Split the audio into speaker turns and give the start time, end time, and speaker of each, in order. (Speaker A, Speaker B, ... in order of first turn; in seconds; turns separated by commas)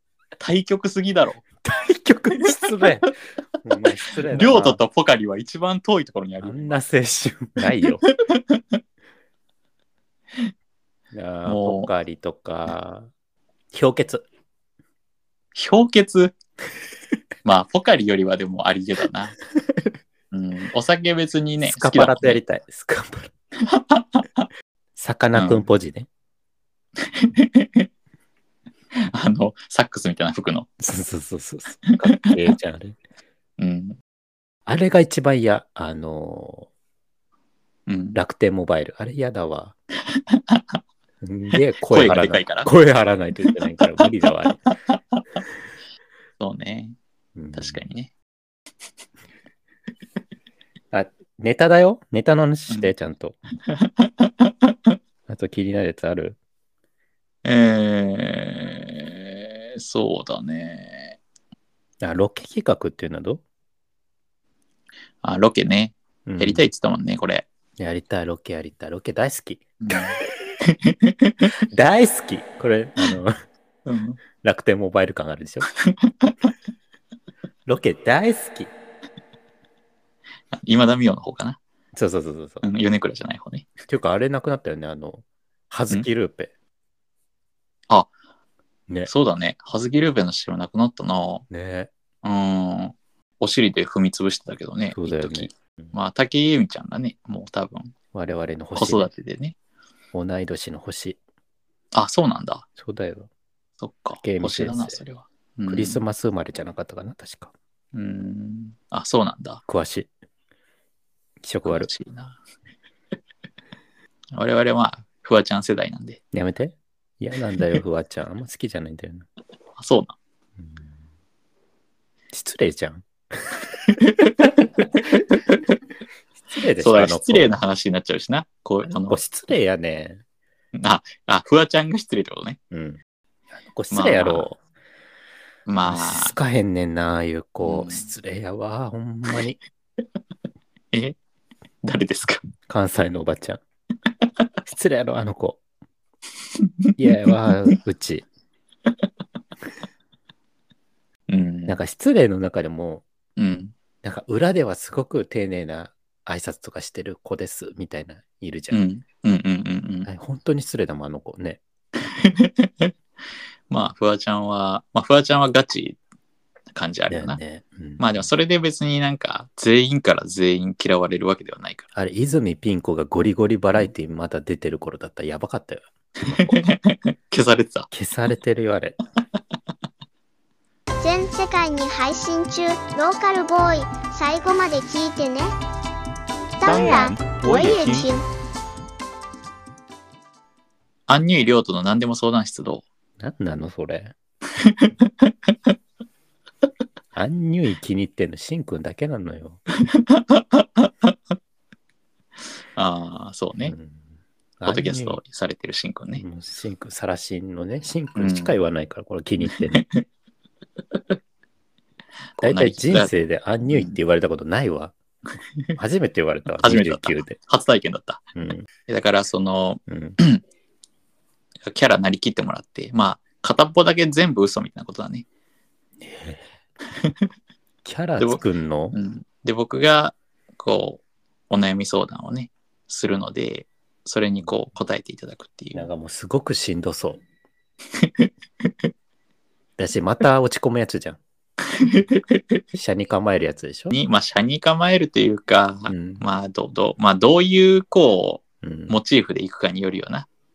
Speaker A: 0.4-1.4, Speaker B: 1.6-4.8, Speaker A: 2.5-3.0, Speaker A: 4.2-6.8, Speaker B: 6.4-8.0, Speaker A: 8.1-8.6, Speaker B: 11.1-13.1, Speaker A: 11.4-11.9, Speaker B: 13.7-14.2, Speaker A: 15.5-16.3, Speaker A: 17.4-19.4, Speaker A: 20.3-22.4, Speaker B: 21.6-23.3, Speaker A: 23.6-24.5, Speaker B: 24.9-26.1, Speaker A: 25.3-25.6, Speaker A: 27.0-27.9, Speaker A: 28.9-30.7, Speaker B: 30.8-33.0, Speaker A: 31.9-32.4, Speaker A: 33.6-34.0, Speaker B: 34.6-36.7, Speaker A: 37.9-38.2, Speaker B: 38.1-39.7, Speaker B: 41.2-44.6, Speaker A: 41.5-42.7, Speaker A: 44.0-44.2, Speaker A: 46.4-47.0, Speaker B: 47.4-47.8, Speaker A: 47.5-48.1, Speaker B: 50.9-53.4, Speaker A: 53.7-54.9, Speaker B: 55.3-56.4, Speaker A: 57.4-61.2, Speaker B: 62.0-63.4, Speaker A: 65.2-67.5, Speaker B: 66.3-66.6, Speaker B: 67.8-70.5, Speaker A: 69.8-71.5, Speaker B: 71.7-73.3, Speaker A: 73.8-74.2, Speaker B: 74.3-75.7, Speaker A: 75.8-76.5, Speaker B: 77.7-78.7, Speaker A: 80.5-81.6, Speaker B: 81.9-82.6, Speaker A: 82.6-83.7, Speaker B: 83.9-86.5, Speaker A: 89.0-91.4, Speaker B: 91.5-91.9, Speaker A: 92.2-97.9, Speaker B: 94.9-95.9, Speaker B: 98.1-99.1, Speaker A: 98.7-99.5, Speaker B: 100.1-101.2, Speaker A: 101.9-102.7, Speaker B: 102.8-103.3, Speaker A: 103.8-106.0, Speaker B: 104.2-105.0, Speaker B: 105.7-107.5, Speaker A: 107.9-109.6, Speaker B: 109.7-110.1, Speaker B: 111.4-111.9, Speaker A: 111.7-112.4, Speaker A: 114.3-116.2, Speaker B: 116.3-119.2, Speaker A: 119.8-120.1, Speaker B: 122.3-123.7, Speaker A: 123.9-125.6, Speaker B: 126.5-127.5, Speaker A: 126.8-129.2, Speaker B: 128.8-130.2, Speaker A: 130.7-132.6, Speaker B: 132.7-133.0, Speaker B: 133.6-134.6, Speaker A: 133.9-134.5, Speaker A: 135.7-136.3, Speaker B: 135.8-139.6, Speaker A: 137.6-138.1, Speaker A: 141.8-142.5, Speaker B: 142.7-143.6, Speaker B: 144.6-145.6, Speaker A: 146.9-147.3, Speaker B: 147.0-148.2, Speaker A: 151.3-151.8, Speaker B: 151.7-153.0, Speaker A: 153.4-153.7, Speaker B: 154.0-158.8, Speaker A: 158.7-160.1, Speaker B: 160.1-161.6, Speaker A: 162.0-162.9, Speaker A: 163.7-166.0, Speaker A: 166.7-167.4, Speaker B: 167.1-168.2, Speaker A: 168.0-171.9, Speaker B: 171.9-176.7, Speaker A: 176.2-177.9, Speaker B: 177.9-179.0, Speaker C: 181.0-185.5, Speaker C: 186.5-188.2, Speaker A: 186.6-188.1, Speaker B: 186.6-187.2, Speaker A: 191.1-192.8, Speaker B: 193.2-194.1, Speaker A: 194.6-195.1, Speaker B: 197.1-199.6, Speaker A: 199.8-201.1, Speaker A: 202.7-203.7, Speaker B: 203.6-204.0, Speaker B: 204.6-205.2, Speaker A: 204.7-206.2, Speaker B: 206.2-209.8, Speaker A: 208.1-208.5, Speaker A: 209.5-210.0, Speaker A: 212.4-213.1, Speaker B: 212.4-214.9, Speaker A: 213.6-213.9, Speaker B: 215.7-217.4, Speaker A: 216.6-218.2, Speaker B: 218.3-218.7, Speaker A: 218.9-220.4, Speaker B: 219.9-220.2, Speaker A: 221.7-225.2, Speaker B: 226.0-226.5, Speaker B: 227.8-228.9, Speaker A: 228.9-235.9, Speaker B: 235.7-237.2, Speaker A: 238.0-238.3, Speaker B: 239.8-241.2, Speaker A: 241.8-242.6, Speaker B: 242.7-243.9, Speaker A: 243.9-250.3, Speaker B: 245.9-246.2, Speaker B: 248.6-249.0